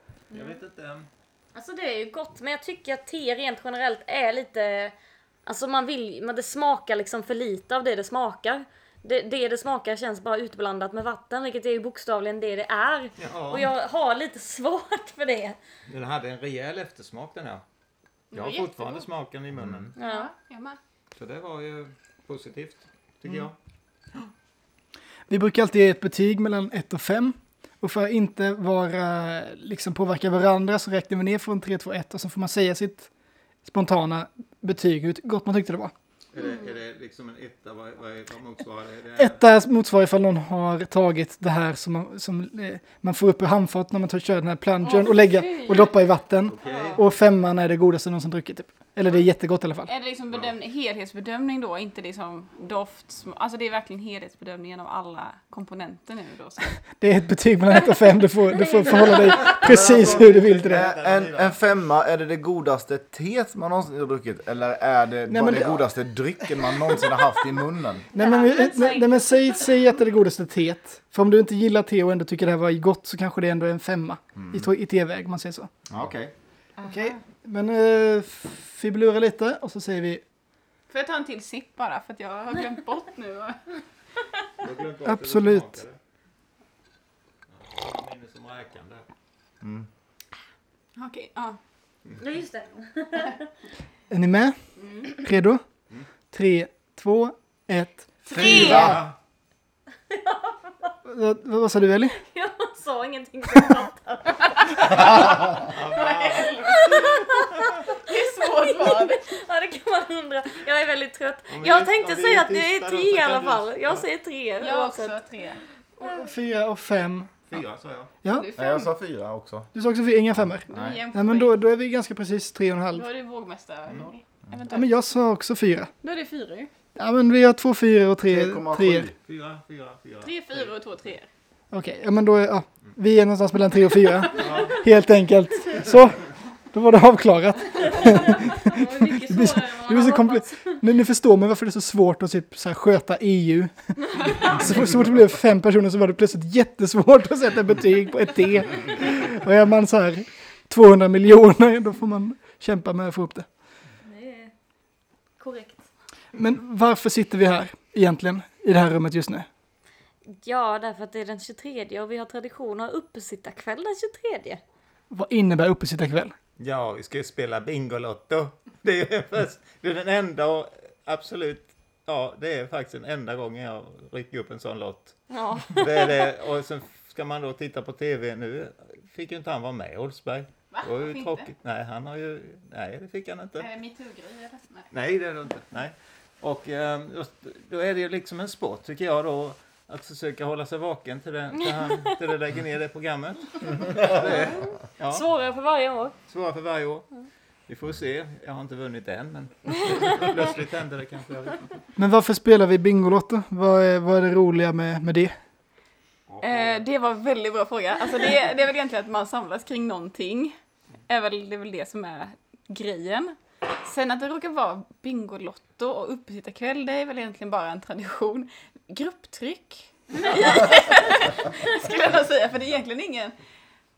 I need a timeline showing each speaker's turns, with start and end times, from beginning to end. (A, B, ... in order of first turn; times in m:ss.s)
0:00.3-0:01.1 A
0:01.6-0:15.6 B
0:13.2-0:13.7 A
0:15.9-0:17.6 A
0:18.3-0:19.1 C
0:18.3-0:19.9 A
0:19.6-0:19.9 D
0:20.0-0:20.3 B
0:20.0-0:20.8 C
0:21.1-0:23.6 A
0:25.3-0:33.1 E
0:33.6-0:35.9 E
0:36.3-0:39.4 A
0:36.4-0:36.7 B
0:39.2-0:49.9 E
0:44.8-0:45.9 C
0:46.5-0:47.0 A
0:46.6-0:47.0 B
0:49.8-0:56.8 C
0:56.8-1:00.9 E
0:58.6-0:59.2 B
0:59.3-1:01.6 A
0:59.6-1:08.1 D
1:05.3-1:05.9 E
1:06.4-1:07.3 E
1:08.1-1:15.7 E
1:08.1-1:09.6 B
1:14.4-1:14.7 D
1:15.9-1:16.3 D
1:16.8-1:17.2 C
1:16.9-1:20.2 E
1:20.9-1:23.8 C
1:24.6-1:26.0 A
1:25.0-1:25.7 E
1:27.5-1:29.1 A
1:29.6-1:29.9 D
1:31.0-1:31.6 C
1:32.2-1:33.5 B
1:34.1-1:35.6 E
1:36.3-1:39.0 E
1:38.3-1:38.9 B
1:38.4-1:39.1 A
1:38.4-1:39.0 D
1:40.1-1:40.9 B
1:41.0-1:42.2 E
1:42.3-1:45.2 B
1:45.0-1:46.9 A
1:45.0-1:47.3 C
1:46.6-1:55.2 B
1:47.9-1:49.2 C
1:51.5-1:54.0 A
1:54.6-1:55.6 C
1:56.0-1:57.6 E
1:57.5-1:58.1 A
1:58.3-1:58.9 C
1:58.5-1:59.7 D
1:59.7-2:03.1 E
2:00.7-2:01.5 C
2:00.7-2:01.0 D
2:02.9-2:04.9 C
2:04.7-2:05.9 E
2:06.0-2:06.7 C
2:07.0-2:09.1 E
2:08.3-2:09.2 D
2:09.2-2:10.7 A
2:10.2-2:11.3 C
2:11.7-2:33.5 E
2:14.4-2:14.8 A
2:18.0-2:20.8 B
2:34.0-2:34.5 B
2:35.4-2:35.8 B
2:36.4-2:39.5 E
2:40.4-2:44.6 B
2:45.1-2:46.4 E
2:46.6-3:03.7 A
2:55.3-2:56.3 B
3:00.7-3:01.5 C
3:03.6-3:04.9 C
3:04.9-3:15.2 A
3:15.1-3:16.2 B
3:16.3-3:17.1 A
3:17.7-3:21.8 A
3:22.0-3:25.4 E
3:26.3-3:26.8 A
3:26.4-3:30.6 C
3:31.1-3:43.4 C